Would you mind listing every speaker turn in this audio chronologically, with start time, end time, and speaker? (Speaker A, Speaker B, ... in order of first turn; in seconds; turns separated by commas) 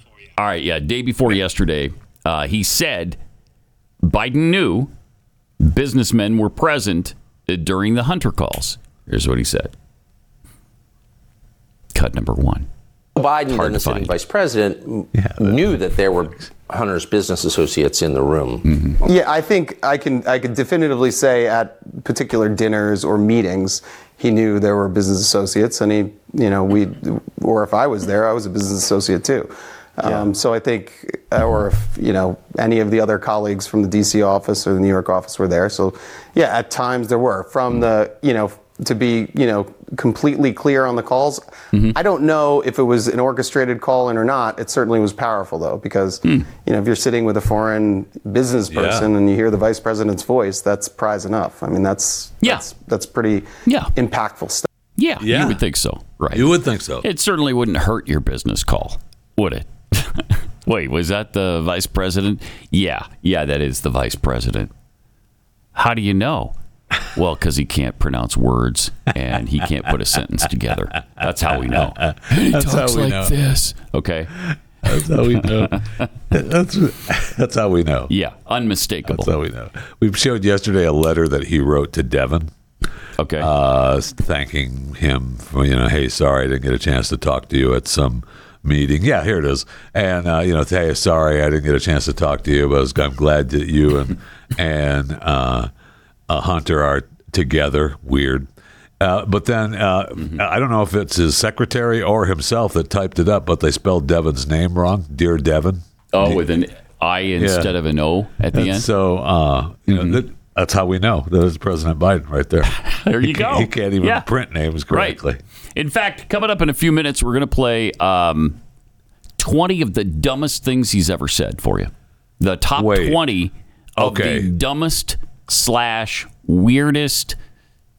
Speaker A: 0.4-3.2, Speaker A: 4.0-4.9, Speaker A: 5.6-9.7, Speaker A: 11.9-12.7, Speaker B: 13.2-18.6, Speaker A: 13.5-14.1, Speaker C: 15.1-15.8, Speaker A: 18.6-19.0, Speaker D: 19.0-41.4, Speaker D: 42.0-54.7, Speaker C: 48.7-49.1, Speaker A: 55.0-64.7, Speaker C: 55.2-55.6, Speaker C: 56.3-57.0, Speaker A: 65.8-66.5, Speaker A: 67.1-74.3, Speaker C: 71.5-73.3, Speaker C: 74.4-75.8, Speaker A: 75.4-76.1, Speaker C: 76.3-78.1, Speaker A: 78.1-79.3, Speaker C: 79.1-82.5, Speaker A: 83.2-83.5, Speaker C: 83.4-95.7, Speaker C: 96.3-98.5, Speaker C: 99.0-106.4, Speaker A: 106.1-108.9, Speaker C: 107.4-107.7, Speaker C: 108.5-115.4, Speaker A: 112.8-114.3, Speaker A: 114.9-115.2, Speaker A: 115.8-118.6, Speaker A: 119.4-127.4, Speaker C: 122.8-123.2, Speaker C: 124.0-124.5